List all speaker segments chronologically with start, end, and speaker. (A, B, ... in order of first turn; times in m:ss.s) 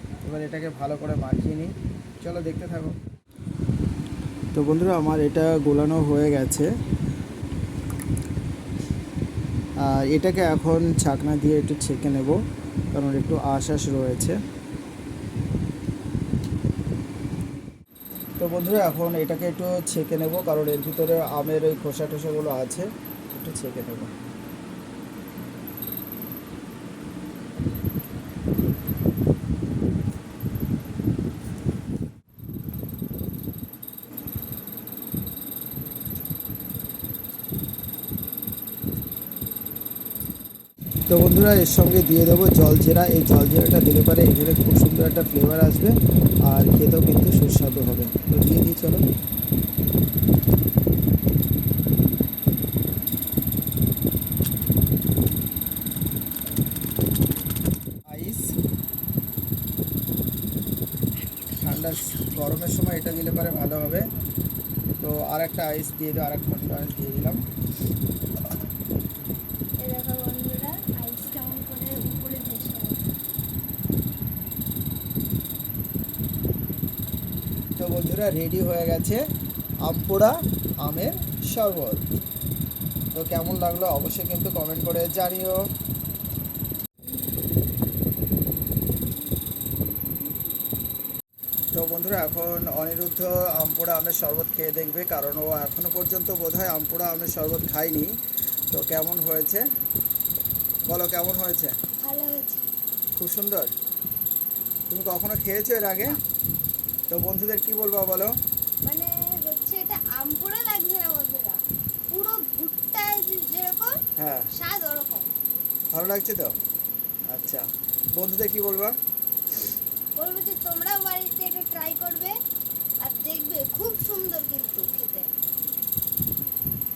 0:00.2-0:03.0 A
0:04.5-0:06.7 A
0:09.8-0:12.4 A
0:12.9-0:14.4 A
0:18.4-0:24.1 A
0:41.1-0:49.0 A
0:58.1-0:58.5 A
1:01.5-1:04.0 A
1:05.0-1:07.4 A
1:09.8-1:13.0 B
1:17.8-1:19.2 A
1:19.8-1:22.1 A
1:23.1-1:25.6 A
1:31.7-1:38.1 A
1:38.7-1:39.6 A
1:40.9-1:41.7 A
1:42.0-1:42.7 B
1:43.1-1:43.7 A
1:44.9-1:46.2 A
1:47.1-1:48.4 A
1:48.8-1:55.3 B
1:54.2-1:54.5 A
1:55.9-1:56.6 A
1:57.3-1:59.0 A
2:00.2-2:02.4 B
2:03.0-2:05.3 B